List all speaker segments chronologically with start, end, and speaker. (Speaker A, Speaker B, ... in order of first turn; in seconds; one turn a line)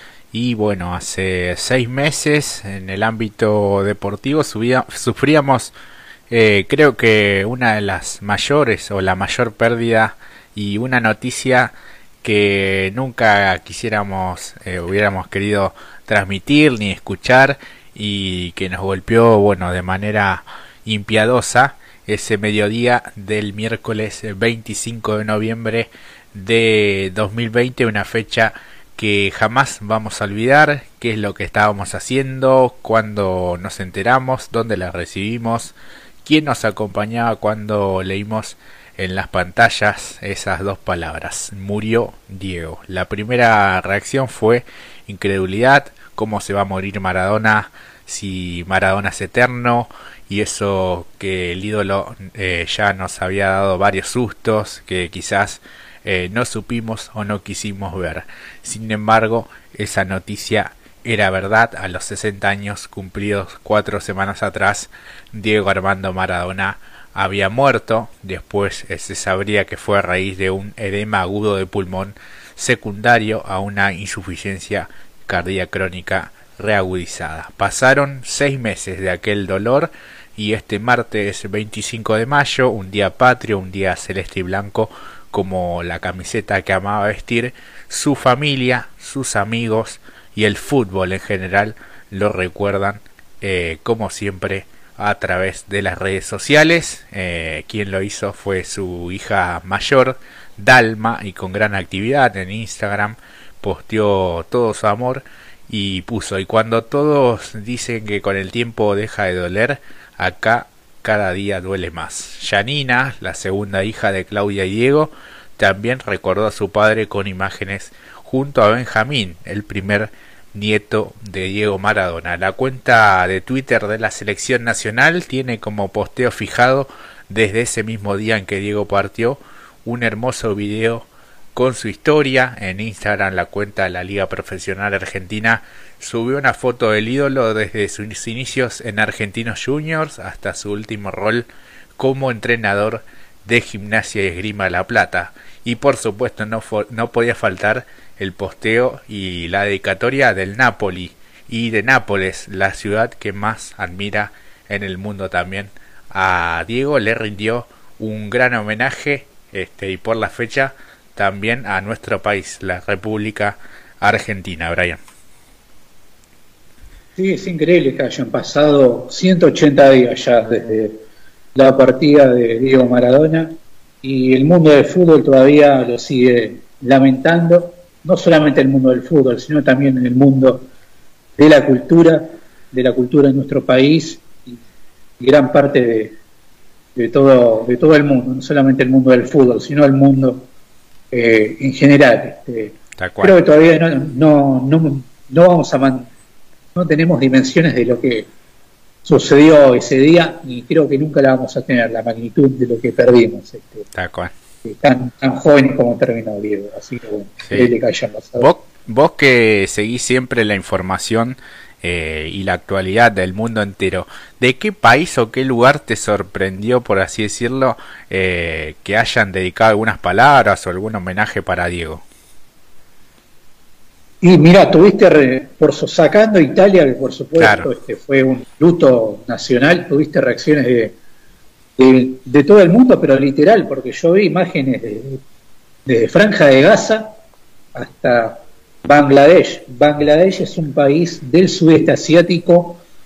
Speaker A: 0.3-5.7
Speaker A: 6.3-11.7
Speaker A: 12.2-141.4
Speaker A: 142.0-165.0
Speaker B: 167.2-171.0
Speaker B: 171.5-180.7
Speaker B: 181.4-184.5
Speaker B: 185.2-186.1
Speaker B: 186.9-190.5
Speaker B: 191.1-196.1
Speaker A: 193.0-193.3
Speaker B: 196.7-198.3
Speaker B: 199.0-203.8
Speaker A: 203.9-204.3
Speaker B: 204.6-208.5
Speaker A: 207.4-207.7
Speaker A: 208.4-222.0
Speaker B: 224.2-230.9
Speaker A: 227.4-227.7
Speaker B: 231.8-235.2
Speaker B: 235.8-237.2
Speaker B: 237.7-242.8